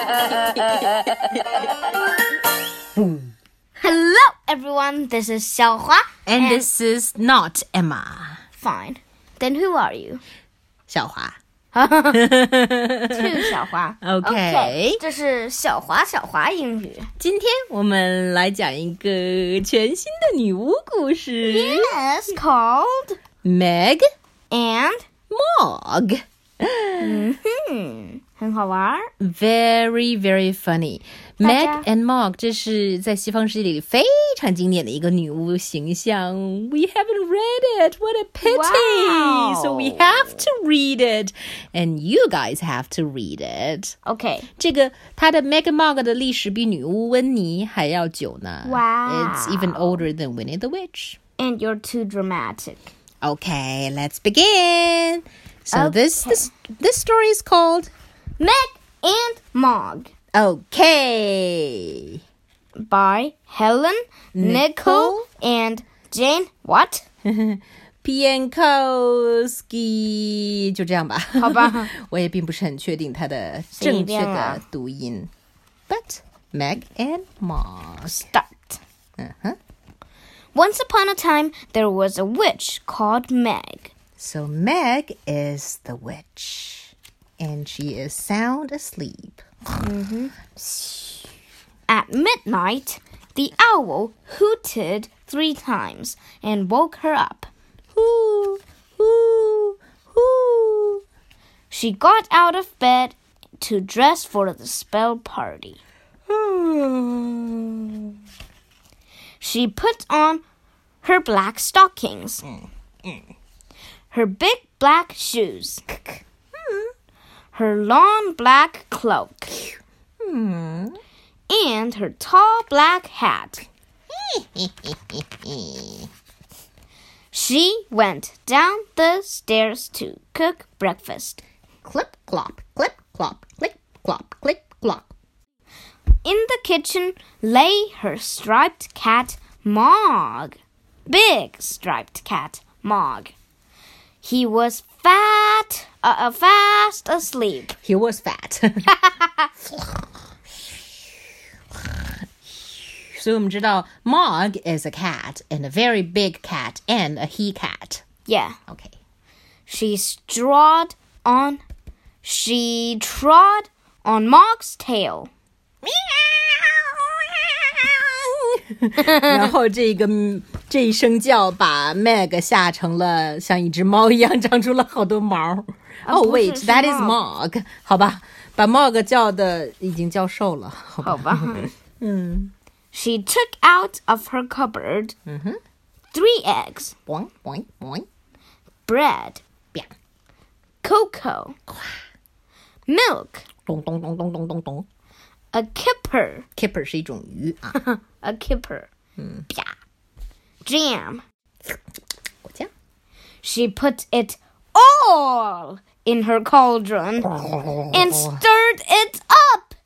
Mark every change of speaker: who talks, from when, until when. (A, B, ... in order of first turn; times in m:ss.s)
0:00.3-0:00.9 A
0:03.8-0:06.7 B
0:06.3-0:08.4 A
0:08.6-0:10.2 B
0:10.9-0:11.4 A
0:11.7-0:12.2 B
0:12.1-0:15.0 A
0:13.1-0:17.1 B
0:17.2-0:21.9 A
0:21.4-0:23.2 B
0:23.4-0:24.0 A
0:24.5-0:25.0 B
0:25.3-0:27.3 A
0:27.0-0:29.1 B
0:29.2-0:44.0 A
0:31.4-0:31.8 B
0:38.4-0:40.4 B
0:44.0-0:44.5 B
0:44.6-0:51.2 A
0:48.6-0:50.0 B
0:51.4-0:52.9 B
0:53.2-0:57.9 A
0:55.7-0:56.5 B
0:58.4-1:00.1 B
1:00.3-1:02.2 A
1:02.8-1:07.0 B
1:04.3-1:05.2 A
1:07.2-1:15.3 A
1:11.4-1:11.9 B
1:13.7-1:14.6 B
1:15.9-1:18.3 A
1:18.1-1:18.8 B
1:19.2-1:19.6 A
1:20.5-1:23.9 B
1:24.2-1:29.4 A
1:29.8-1:30.3 B
1:30.6-1:31.3 A
1:31.9-1:37.5 B
1:37.9-1:41.0 A
1:41.7-1:45.8 B
1:46.3-1:48.1 A
1:49.4-1:50.4 B
1:51.0-1:52.4 B
1:54.1-1:55.8 B
1:56.5-1:56.9 A
1:57.5-1:59.6 B
2:00.2-2:01.0 A
2:01.5-2:03.6 B
2:04.1-2:06.1 A
2:07.3-2:11.4 B
2:11.8-2:15.1 A
2:16.2-2:23.3 B
2:24.2-2:27.7 B
2:27.8-2:28.9 A
2:29.0-2:29.5 B
2:32.6-2:38.0 A
2:38.2-2:38.6 B
2:38.7-2:39.0 A
2:39.7-2:41.6 B
2:42.2-2:45.3 B
2:45.8-3:02.5 A
2:49.0-2:49.5 B
2:56.1-2:57.2 B
3:01.0-3:01.7 B
3:02.9-3:05.1 B
3:05.2-3:05.6 A
3:06.1-3:06.9 B
3:07.1-3:08.0 A
3:08.8-3:09.4 B
3:10.8-3:11.6 B
3:11.7-3:11.9 A
3:12.9-3:13.4 B
3:13.7-3:14.8 A
3:15.5-3:16.4 B
3:16.6-3:17.7 A
3:17.7-3:18.9 B
3:19.2-3:19.5 A
3:20.6-3:21.2 B
3:22.4-3:22.7 A
3:23.4-3:27.3 B
3:27.3-3:28.4 A
3:27.9-3:29.8 B